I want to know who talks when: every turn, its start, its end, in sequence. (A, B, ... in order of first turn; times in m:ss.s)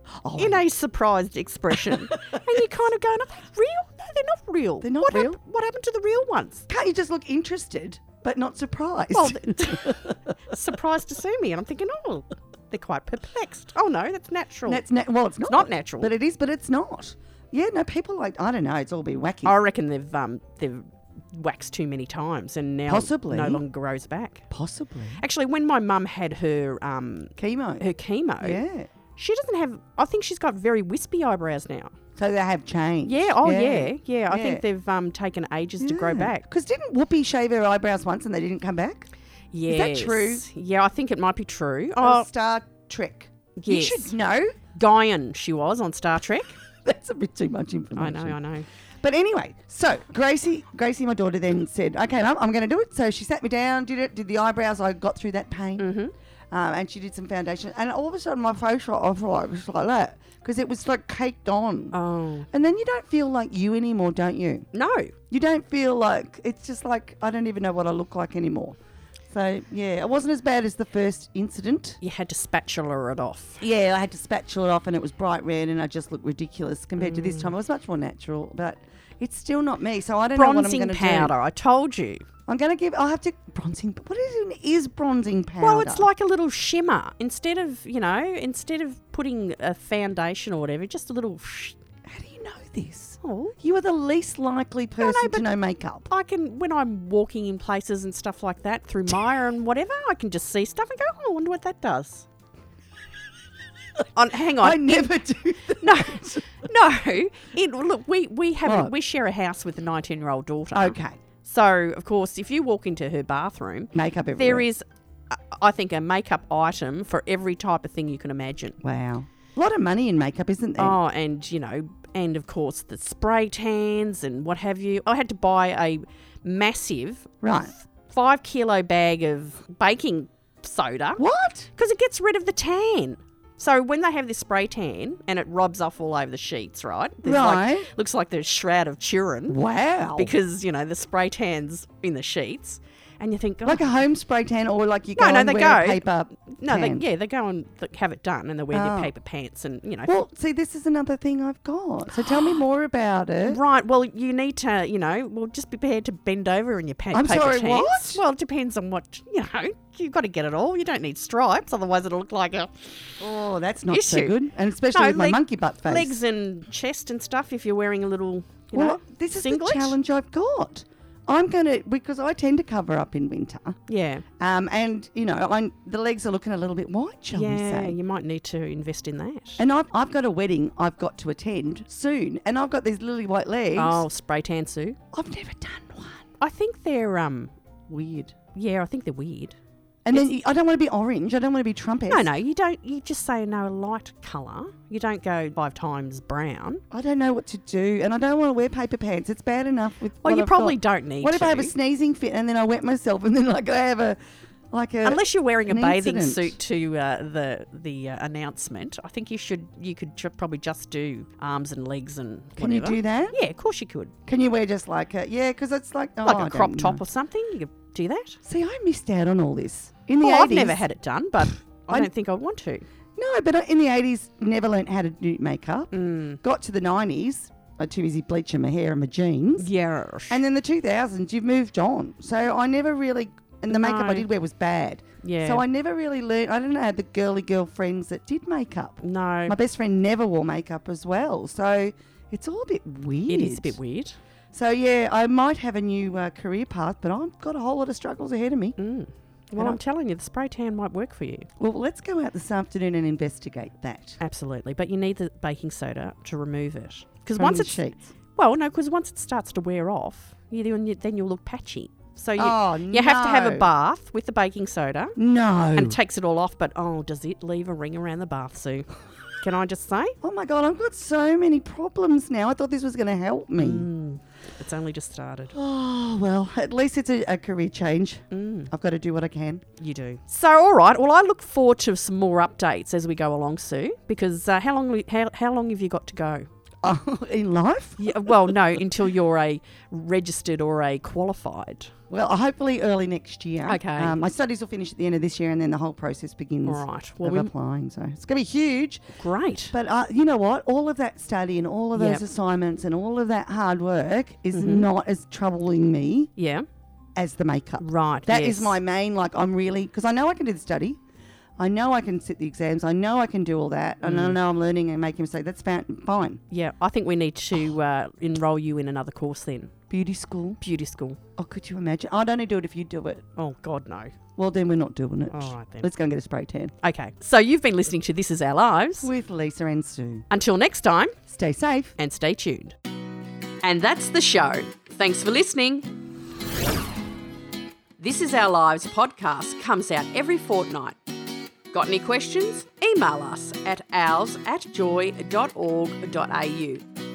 0:00.2-0:00.6 A
0:00.4-0:06.7 B
0:01.9-0:02.2 A
0:04.8-0:05.4 A
0:06.7-0:10.2 A
0:09.1-0:14.8 B
0:14.7-0:19.6 A
0:15.5-0:16.1 B
0:19.4-0:24.5 B
0:22.9-0:23.6 A
0:24.5-0:25.2 A
0:25.2-0:28.6 B
0:27.4-0:27.9 A
0:28.4-0:28.9 A
0:29.2-0:31.9 B
0:32.2-0:34.6 A
0:33.1-0:36.5 B
0:35.8-0:39.1 A
0:39.5-0:42.3 B
0:39.7-0:40.4 A
0:42.0-0:44.6 A
0:43.6-0:44.1 B
0:44.8-0:46.6 B
0:46.8-0:48.4 A
0:48.0-0:48.7 B
0:49.0-0:55.9 A
0:55.8-0:56.1 B
0:56.5-1:02.0 A
1:01.9-1:02.5 B
1:02.5-1:04.7 A
1:04.7-1:05.1 B
1:05.3-1:08.8 A
1:09.3-1:12.0 A
1:12.0-1:13.6 B
1:13.6-1:21.4 A
1:17.0-1:17.5 B
1:20.4-1:22.2 B
1:22.5-1:26.1 A
1:25.6-1:31.8 B
1:32.0-1:36.1 A
1:33.2-1:33.6 B
1:35.0-1:35.5 B
1:36.1-1:42.3 B
1:44.2-1:45.1 B
1:44.6-1:46.5 A
1:45.8-1:58.8 B
1:48.6-1:48.9 A
1:50.7-1:51.2 A
1:53.9-1:54.6 A
1:58.8-2:01.0 A
2:00.8-2:07.3 B
2:07.4-2:07.7 A
2:08.0-2:11.2 B
2:11.2-2:11.7 A
2:11.8-2:19.6 B
2:17.2-2:17.9 A
2:19.5-2:20.3 A
2:20.2-2:23.9 B
2:23.6-2:27.0 A
2:25.2-2:30.2 B
2:28.7-2:29.1 A
2:30.1-2:33.6 A
2:33.4-2:42.9 B
2:37.1-2:38.2 A
2:43.2-2:46.2 A
2:43.9-2:44.4 B
2:44.9-2:50.0 B
2:48.7-2:53.8 A
2:53.9-2:54.2 B
2:54.4-2:58.0 A
2:57.3-2:59.6 B
2:59.6-3:04.0 A
3:03.8-3:05.0 B
3:05.1-3:06.3 A
3:06.4-3:07.5 B
3:07.9-3:08.4 A
3:08.5-3:09.6 B
3:10.0-3:12.3 A
3:12.1-3:16.8 B
3:16.9-3:24.2 A
3:20.2-3:21.7 B
3:24.7-3:26.6 A
3:25.0-3:34.1 B
3:32.6-3:33.4 A
3:34.3-3:37.0 A
3:36.2-3:38.4 B
3:38.4-3:40.8 A
3:40.2-3:42.8 B
3:43.2-3:49.7 A
3:45.9-3:46.4 B
3:49.6-3:50.4 B
3:50.3-4:03.8 A
3:53.7-3:54.3 B
3:55.2-3:55.6 B
3:59.0-3:59.6 B
4:03.3-4:04.2 B
4:04.5-4:08.8 A
4:08.8-4:11.5 B
4:11.6-4:14.2 A
4:14.2-4:17.8 B
4:17.4-4:18.1 A
4:18.4-4:25.2 B
4:22.4-4:23.7 A
4:25.2-4:26.0 A
4:25.7-4:30.2 B
4:30.2-4:33.9 A
4:33.6-4:35.6 B
4:35.5-4:39.6 A
4:38.3-4:38.7 B
4:39.8-4:46.5 B
4:46.8-4:48.4 A
4:48.0-4:51.9 B
4:52.1-4:59.0 A
4:53.7-4:54.2 B
4:56.7-4:57.5 B
4:59.2-4:59.7 B
4:59.7-5:06.3 A
5:02.0-5:02.2 B
5:04.5-5:04.9 B
5:06.4-5:06.7 B
5:07.2-5:11.0 A
5:07.8-5:08.8 B
5:11.6-5:16.4 A
5:14.0-5:14.4 B
5:16.5-5:19.7 B
5:19.9-5:20.6 A
5:20.6-5:21.2 B
5:21.4-5:23.3 A
5:23.4-5:24.1 B
5:24.4-5:26.7 A
5:25.3-5:25.9 B
5:26.8-5:29.1 B
5:29.0-5:30.3 A
5:30.3-5:31.2 B
5:31.3-5:31.9 A
5:32.0-5:32.8 B
5:33.6-5:35.9 B
5:38.0-5:41.0 B
5:41.7-5:46.8 B